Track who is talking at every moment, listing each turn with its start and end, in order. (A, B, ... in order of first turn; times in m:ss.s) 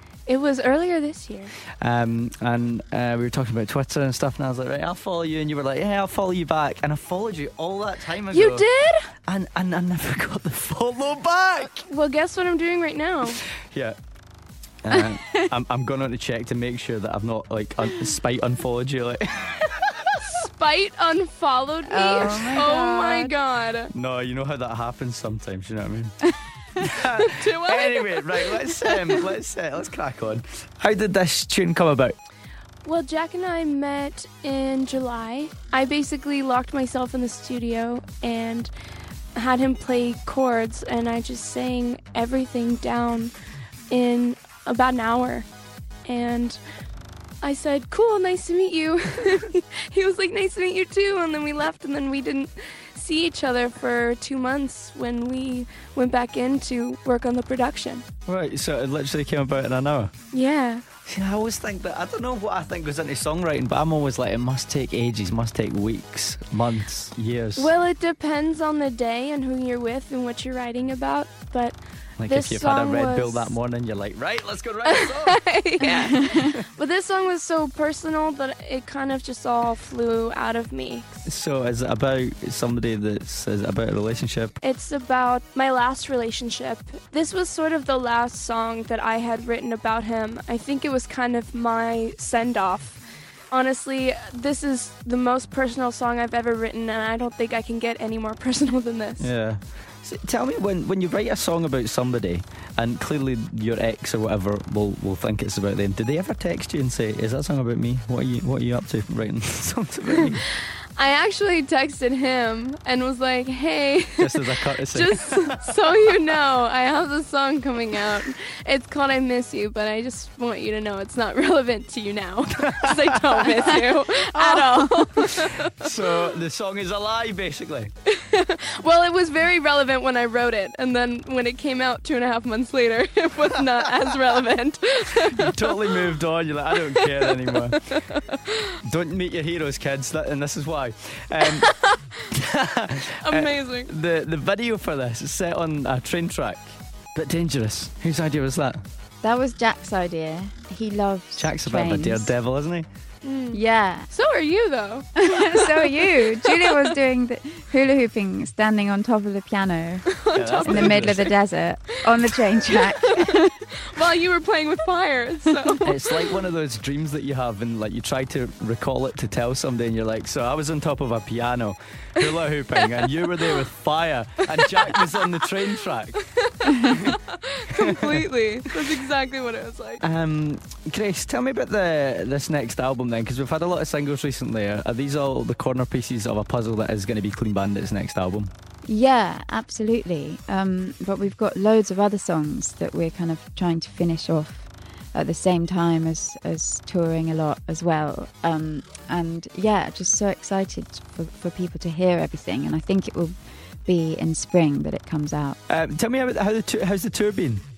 0:00.3-0:01.5 A
0:01.8-0:08.6 B
0:08.3-0:09.1 A
0:09.3-0:11.8 B
0:11.8-0:13.4 A
0:13.7-0:14.0 B
0:14.8-0:20.1 B
0:14.9-0:15.5 C
0:20.2-0:23.9 A
0:21.9-0:23.4 C
0:23.9-0:26.2 B
0:26.8-0:32.2 B
0:27.2-0:29.3 A
0:32.8-0:38.7 A
0:39.3-0:43.3 A
0:43.9-0:45.5 A
0:46.0-0:46.6 A
0:47.4-0:58.0 A
0:58.3-1:00.1 B
1:00.3-1:00.8 A
1:01.0-1:07.7 B
1:07.6-1:13.6 A
1:12.2-1:15.4 B
1:14.8-1:21.2 A
1:15.8-1:16.4 C
1:21.2-1:24.6 B
1:24.6-1:33.0 A
1:33.5-1:39.3 A
1:39.2-1:50.4 B
1:51.0-2:06.4 A
1:54.2-1:55.6 B
2:02.8-2:03.7 B
2:03.5-2:05.0 C
2:05.6-2:07.9 B
2:08.1-2:16.2 A
2:15.4-2:18.0 B
2:16.7-2:18.7 A
2:18.8-2:21.7 B
2:21.6-2:22.0 A
2:22.3-2:28.8 B
2:23.2-2:23.9 A
2:29.2-2:32.3 C
2:31.4-2:32.9 B
2:33.2-2:36.9 A
2:33.5-2:34.1 C
2:35.2-2:40.0 C
2:40.1-2:41.4 A
2:40.3-2:41.3 B
2:40.6-2:43.5 C
2:42.1-2:46.4 A
2:45.8-2:56.2 B
2:52.2-2:53.6 A
2:54.5-3:00.0 A
2:56.8-2:57.2 B
2:57.8-2:58.2 B
3:00.0-3:08.5 B
3:08.8-3:25.6 C
3:25.7-3:27.6 B